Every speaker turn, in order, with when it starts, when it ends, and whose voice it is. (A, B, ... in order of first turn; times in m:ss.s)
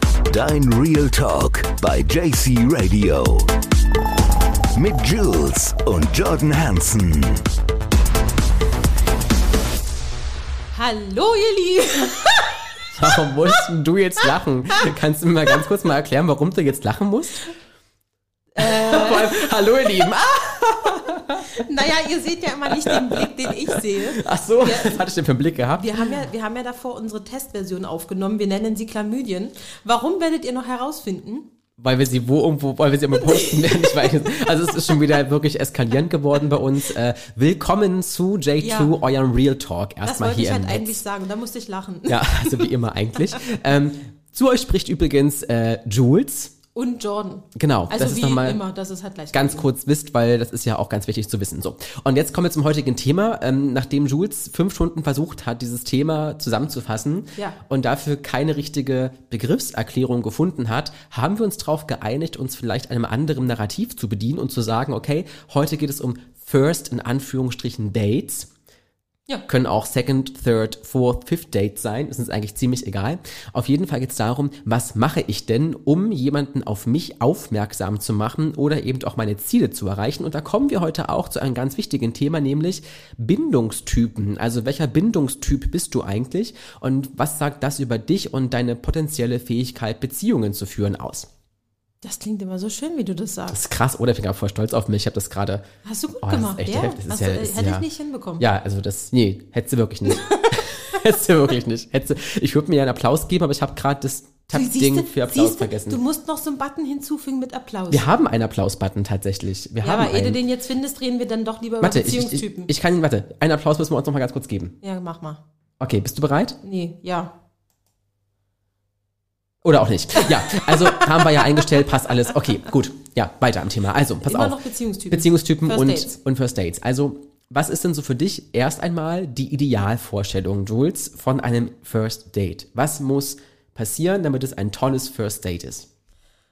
0:00.3-0:03.5 A
0:04.7-0:07.4 A
0:10.7-0:13.6 B
0:13.0-0:17.5 C
0:18.6-0:19.5 B
0:18.6-0:21.5 C
0:21.0-0:25.0 B
0:22.7-0:26.1 C
0:25.8-0:31.5 B
0:31.8-0:41.0 C
0:33.1-0:34.9 B
0:38.6-0:38.9 B
0:40.0-0:42.7 B
0:42.1-0:46.5 C
0:46.7-0:49.7 B
0:47.6-0:48.6 C
0:49.3-1:08.5 C
1:09.5-1:31.3 C
1:32.0-1:33.6 B
1:33.5-1:35.6 C
1:35.8-1:38.4 B
1:36.2-1:37.8 C
1:38.4-1:46.0 C
1:40.1-1:40.8 B
1:44.5-1:48.1 B
1:47.9-1:50.4 C
1:49.8-1:52.7 B
1:51.8-1:54.8 C
1:54.8-1:55.4 B
1:55.8-1:56.6 C
1:56.6-1:57.3 B
1:59.6-2:04.6 C
2:04.2-2:06.1 B
2:05.1-2:15.9 C